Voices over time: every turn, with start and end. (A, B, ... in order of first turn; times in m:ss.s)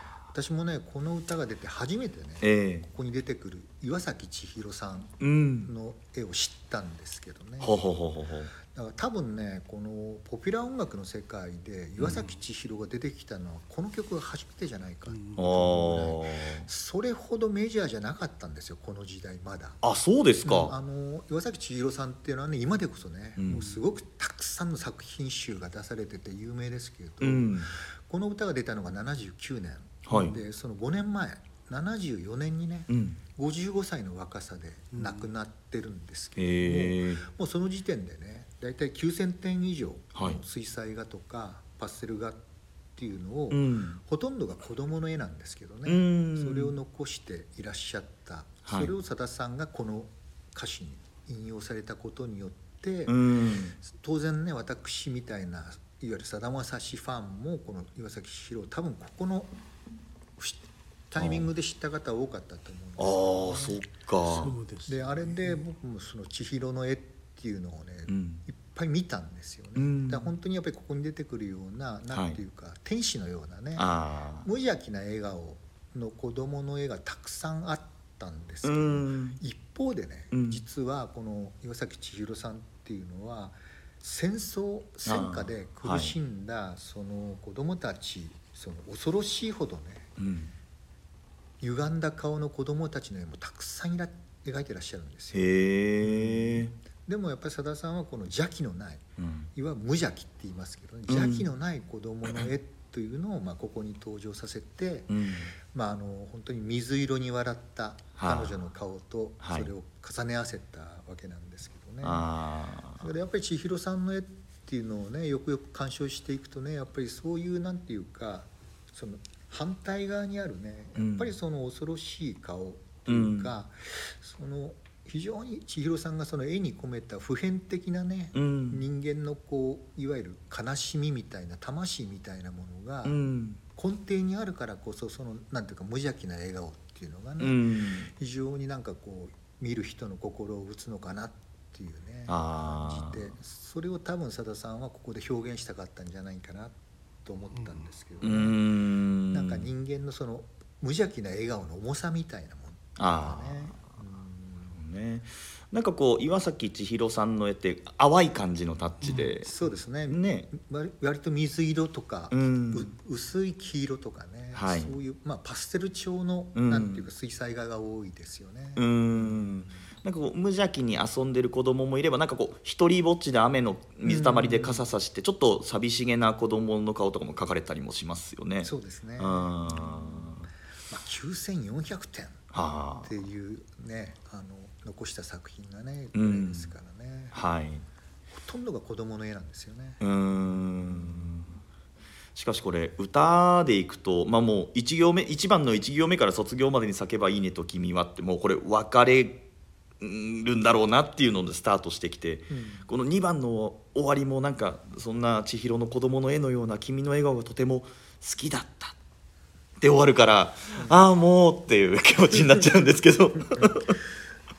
0:00.3-0:07.8 A
0:02.4-0:02.9 B
0:05.2-0:05.7 B
0:07.6-0:08.5 B
0:08.6-0:19.8 A
0:12.0-0:12.2 B
0:15.1-0:15.5 C
0:15.4-0:16.7 B
0:19.8-0:20.7 B
0:20.4-0:42.4 A
0:23.4-0:23.7 B
0:27.2-0:27.7 B
0:30.1-0:30.4 B
0:32.9-0:33.2 B
0:35.0-0:35.2 C
0:36.4-0:37.2 B
0:40.2-0:40.4 B
0:43.0-0:53.2 A
0:43.5-0:44.0 B
0:45.9-0:46.8 B
0:48.7-0:48.9 B
0:53.1-0:53.8 B
0:53.8-0:59.5 A
1:00.4-1:03.8 A
1:01.2-1:01.4 B
1:03.0-1:04.6 B
1:04.3-1:05.6 C
1:04.9-1:13.9 A
1:08.1-1:08.4 B
1:09.8-1:10.3 B
1:12.1-1:12.4 B
1:13.8-1:14.5 B
1:14.4-1:30.1 A
1:18.6-1:19.4 B
1:20.3-1:20.6 B
1:25.0-1:26.1 B
1:30.2-1:30.5 B
1:31.6-1:39.0 A
1:35.3-1:36.7 B
1:39.2-1:39.5 B
1:39.5-1:52.3 A
1:41.1-1:41.5 B
1:45.1-1:45.5 B
1:48.2-1:48.6 B
1:49.4-1:49.7 B
1:52.0-1:53.1 B
1:53.0-2:13.2 A
2:01.0-2:01.3 B
2:03.1-2:03.5 B
2:08.3-2:08.8 B
2:13.0-2:13.6 B
2:13.8-2:28.6 A
2:17.4-2:18.1 B
2:22.3-2:23.3 B
2:28.2-2:29.7 B
2:29.3-2:34.8 A
2:33.0-2:33.8 B
2:34.7-2:39.5 B
2:39.4-2:49.7 A
2:40.1-2:40.5 B
2:42.3-2:42.9 B
2:44.6-2:44.9 B
2:46.6-2:47.1 B
2:48.8-3:00.5 B
2:54.0-2:54.9 A
2:58.6-3:00.3 A
3:00.9-3:02.4 A
3:02.5-3:03.1 B
3:03.0-3:07.4 A
3:06.1-3:06.7 B
3:07.3-3:07.9 B
3:08.3-3:10.0 A
3:10.0-3:11.6 B
3:12.4-3:19.4 B
3:20.0-3:29.0 B
3:22.5-3:22.9 A
3:29.8-3:34.0 B
3:30.8-3:31.0 A
3:33.5-3:33.9 A